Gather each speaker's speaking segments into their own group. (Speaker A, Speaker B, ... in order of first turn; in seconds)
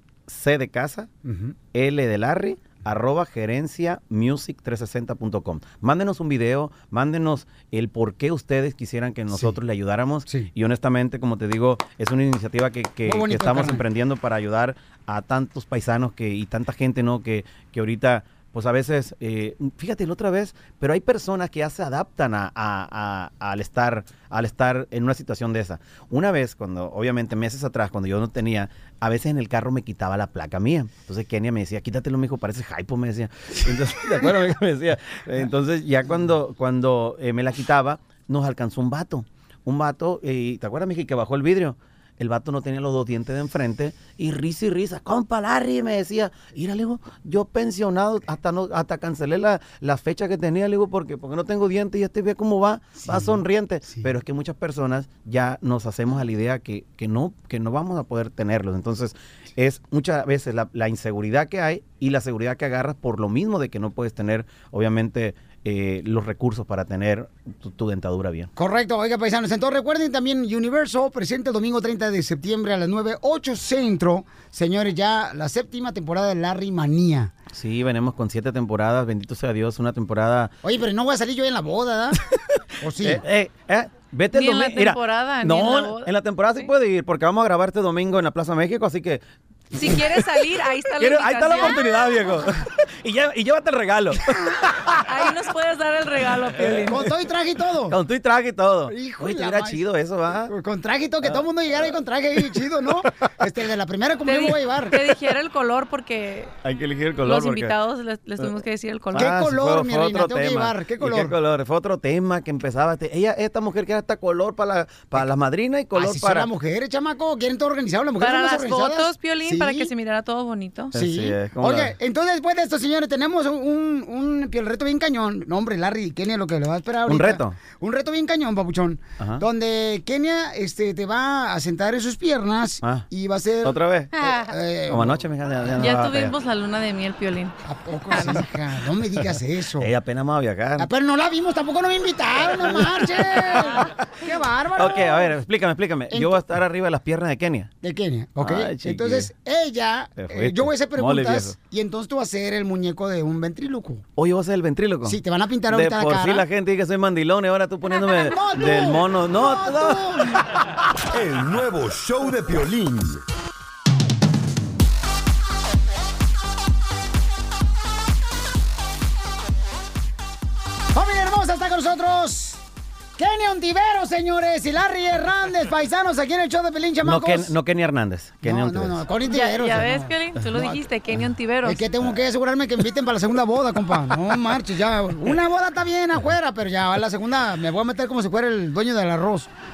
Speaker A: 0.3-1.1, 1.7-68.5, 77.5-80.5, 83.0-89.2, 89.8-90.2, 91.0-95.0, 96.6-96.9, 97.9-100.5, 101.2-101.9, 106.6-107.7, 109.1-116.5, 120.9-121.9, 127.1-127.6, 133.6-134.2, 134.9-136.3, 139.8-140.9, 142.8-143.0, 143.6-143.8, 144.8-147.7, 148.4-149.3, 150.2-151.5, 154.2-160.5, 177.0-179.1
Speaker B: 1.2-1.6, 9.3-9.6, 13.1-13.8, 53.0-54.1, 68.5-77.3, 80.6-82.2, 82.8-83.2, 96.8-98.0, 98.9-99.8, 100.5-105.0, 109.1-111.3, 115.9-119.9, 120.9-135.2, 137.6-139.9, 140.8-145.3, 146.1-146.4, 147.8-154.0, 155.0-156.4, 157.9-160.5, 170.9-172.6, 173.2-177.5, 178.4-180.7, 181.6-189.5
Speaker C: 84.3-86.1, 89.7-91.8, 95.1-97.0, 104.2-106.6, 107.2-109.3, 118.2-120.9, 135.8-137.5, 138.1-138.4, 179.2-181.9
Speaker D: 161.1-163.2